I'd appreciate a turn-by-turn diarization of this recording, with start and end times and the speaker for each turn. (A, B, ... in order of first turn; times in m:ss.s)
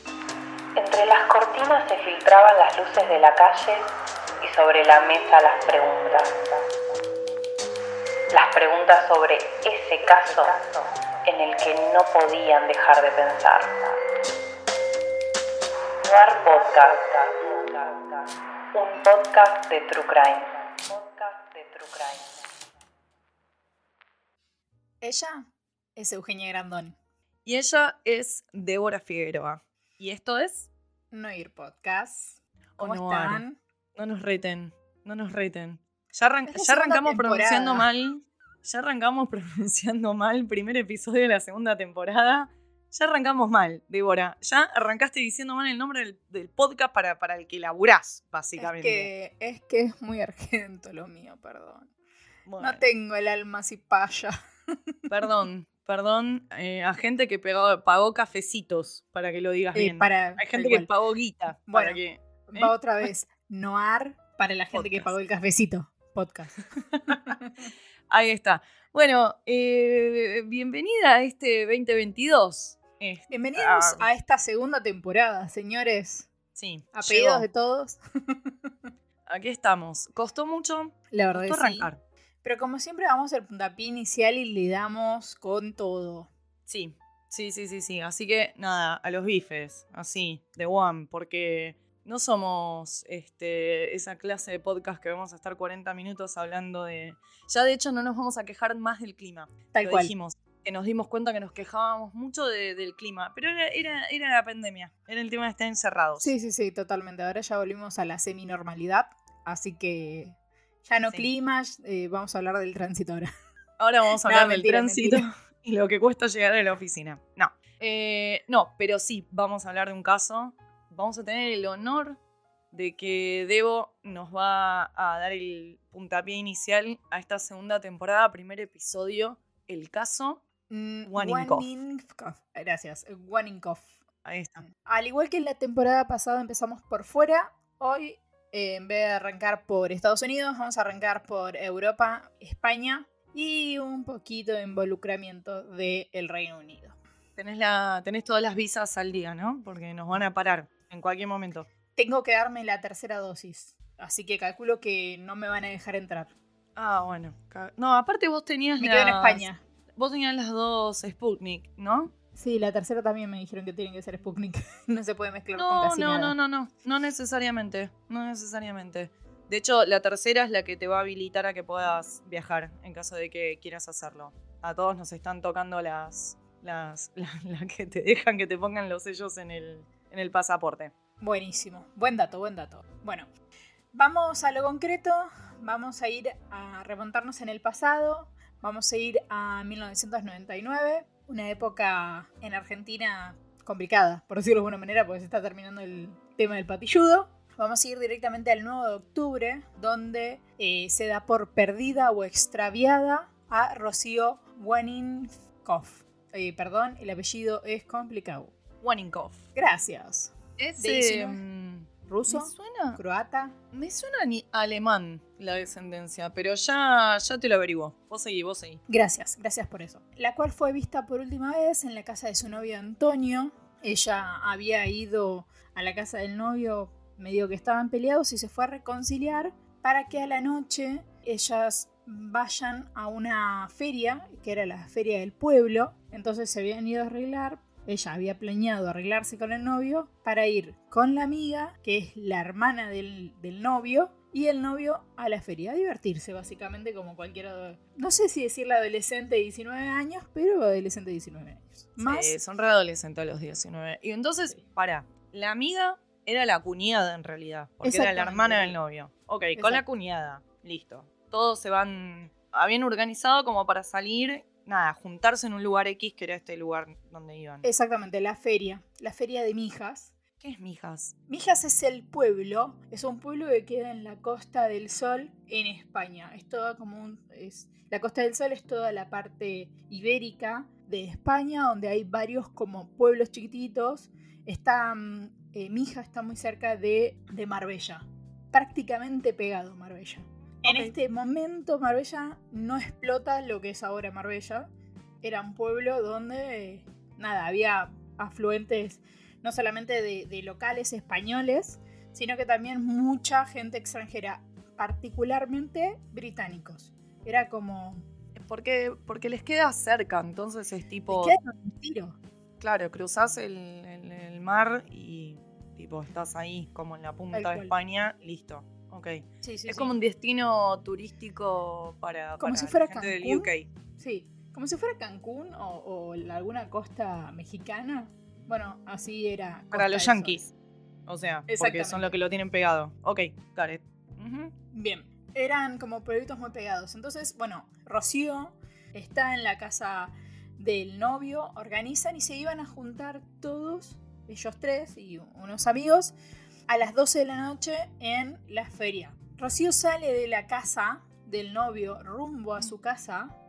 0:00.8-0:06.7 A
0:08.3-0:14.0 A
0:16.0-0:22.5 A
0:25.0-0:27.0 B
0:27.4-0:30.7 C
0:31.1-0:33.6 B
0:32.8-0:33.4 C
0:33.9-0:49.1 C
0:36.5-0:37.8 B
0:48.6-0:51.9 B
0:52.4-0:52.9 C
0:52.6-0:54.3 B
0:55.1-1:03.1 C
0:59.7-1:00.9 B
1:01.7-1:07.5 B
1:04.7-1:05.1 C
1:07.0-1:07.4 C
1:08.1-1:14.1 C
1:13.3-1:16.3 B
1:16.6-1:17.5 C
1:17.0-1:18.5 B
1:19.2-1:22.0 C
1:21.1-1:21.9 B
1:22.4-1:26.3 B
1:26.7-1:46.3 C
1:39.7-1:40.1 B
1:46.2-1:53.3 B
1:53.8-2:02.2 C
1:54.2-1:55.2 B
2:02.7-2:10.4 C
2:10.7-2:14.0 B
2:11.0-2:11.7 C
2:14.2-2:14.6 C
2:14.7-2:27.0 B
2:27.4-2:31.7 C
2:31.9-2:36.3 B
2:36.8-2:42.1 C
2:38.8-2:39.6 B
2:42.4-2:46.3 B
2:45.6-3:00.9 C
3:01.2-3:03.3 B
3:03.9-3:28.5 B
3:28.8-3:29.5 C
3:29.5-3:31.4 B
3:30.6-3:33.0 C
3:32.1-3:33.6 B
3:33.7-3:38.8 C
3:38.9-4:12.3 B
4:12.0-4:27.6 C
4:17.8-4:18.8 B
4:19.5-4:19.8 B
4:27.6-4:30.1 B
4:30.4-4:31.1 C
4:31.3-4:54.7 B
4:50.6-4:50.9 C
4:55.2-5:08.1 B
5:08.3-5:11.4 C
5:11.1-5:12.2 B
5:12.6-5:23.7 C
5:17.3-5:17.7 B
5:19.4-5:19.9 B
5:22.4-5:30.4 B
5:29.7-5:30.5 C
5:31.1-5:34.5 C
5:31.5-5:32.1 B
5:34.7-5:46.1 B
5:46.7-5:53.4 B